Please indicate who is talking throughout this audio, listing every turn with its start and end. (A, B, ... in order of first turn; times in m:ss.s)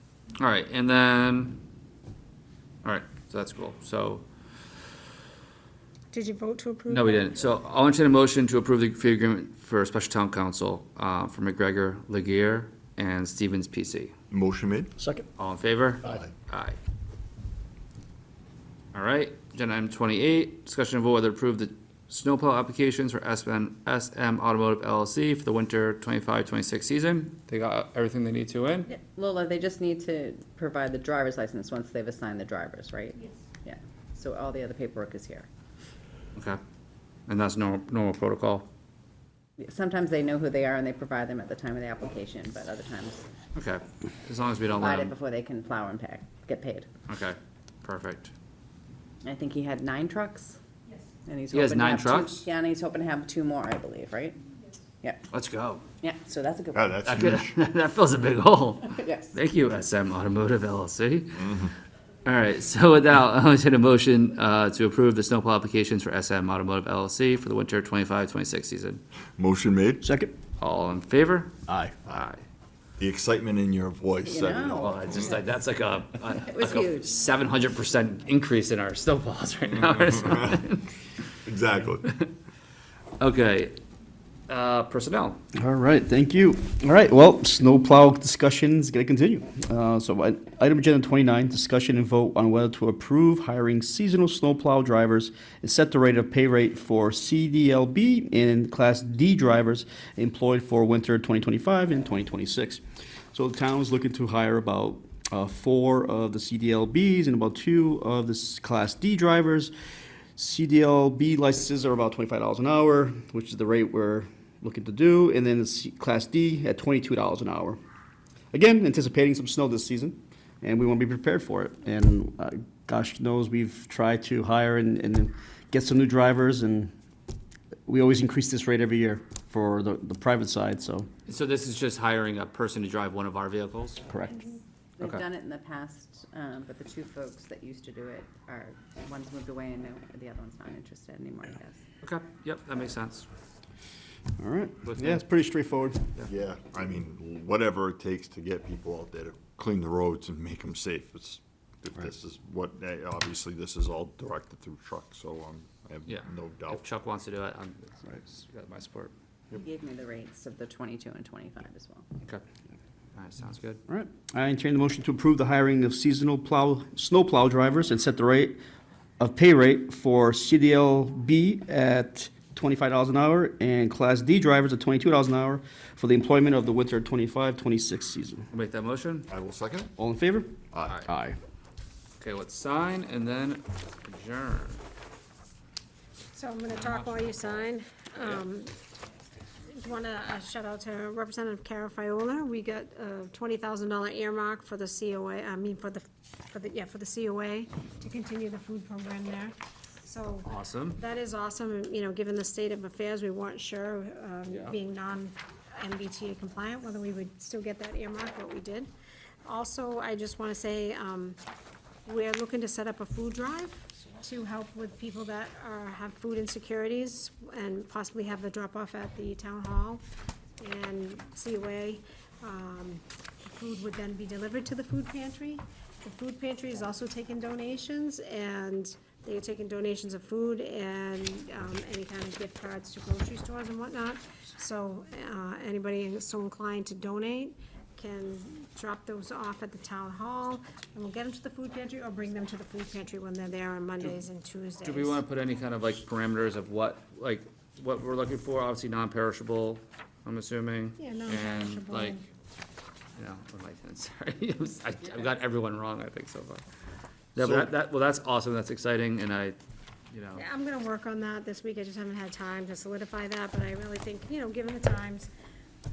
0:00.4-0:01.6 A
0:02.8-0:04.2 A
0:06.1-0:07.4 B
0:06.9-0:14.1 A
0:14.3-0:14.9 C
0:15.0-0:15.2 D
0:15.4-0:16.8 A
0:16.0-0:16.3 C
0:18.9-0:28.9 A
0:28.9-0:35.5 E
0:37.3-0:38.6 A
0:39.6-0:43.2 E
0:43.5-0:45.1 A
0:44.8-0:46.9 E
0:47.1-0:48.3 A
0:49.2-0:50.6 E
0:51.2-0:54.4 E
0:51.5-0:52.4 A
0:55.3-0:55.8 A
0:56.0-0:57.0 E
0:56.7-0:57.5 C
0:57.0-1:01.5 A
0:58.9-0:59.4 E
1:01.4-1:01.7 C
1:02.2-1:09.0 A
1:09.4-1:10.0 C
1:10.0-1:10.3 D
1:10.6-1:11.5 A
1:11.7-1:11.9 D
1:12.0-1:12.4 A
1:13.0-1:15.0 C
1:14.2-1:15.4 E
1:14.8-1:20.9 A
1:16.3-1:17.1 E
1:20.2-1:20.6 C
1:21.4-1:22.1 C
1:23.2-1:23.8 A
1:24.5-1:25.4 A
1:25.6-1:42.8 D
1:43.3-1:49.7 D
1:50.4-1:57.8 D
1:58.5-2:06.9 D
2:07.9-2:11.1 D
2:11.2-2:14.0 A
2:14.1-2:14.4 D
2:15.0-2:21.8 E
2:22.0-2:23.3 A
2:24.4-2:26.1 D
2:24.8-2:25.2 A
2:26.2-2:36.8 C
2:36.0-2:39.1 A
2:39.6-2:42.1 E
2:43.1-2:43.8 A
2:43.9-2:48.6 D
2:49.2-2:58.4 D
2:58.5-2:59.3 A
2:59.3-2:59.9 C
3:00.0-3:01.4 D
3:00.7-3:01.0 C
3:02.2-3:04.8 A
3:06.3-3:08.7 B
3:06.7-3:07.5 A
3:09.7-3:28.9 B
3:20.4-3:21.0 A
3:24.5-3:24.7 A
3:29.4-3:31.4 B
3:32.0-3:40.0 B
3:40.6-4:05.2 B
4:04.8-4:12.2 A
4:11.0-4:12.2 B
4:13.2-4:16.6 A
4:17.3-4:19.6 A
4:20.1-4:20.4 A
4:20.4-4:25.3 B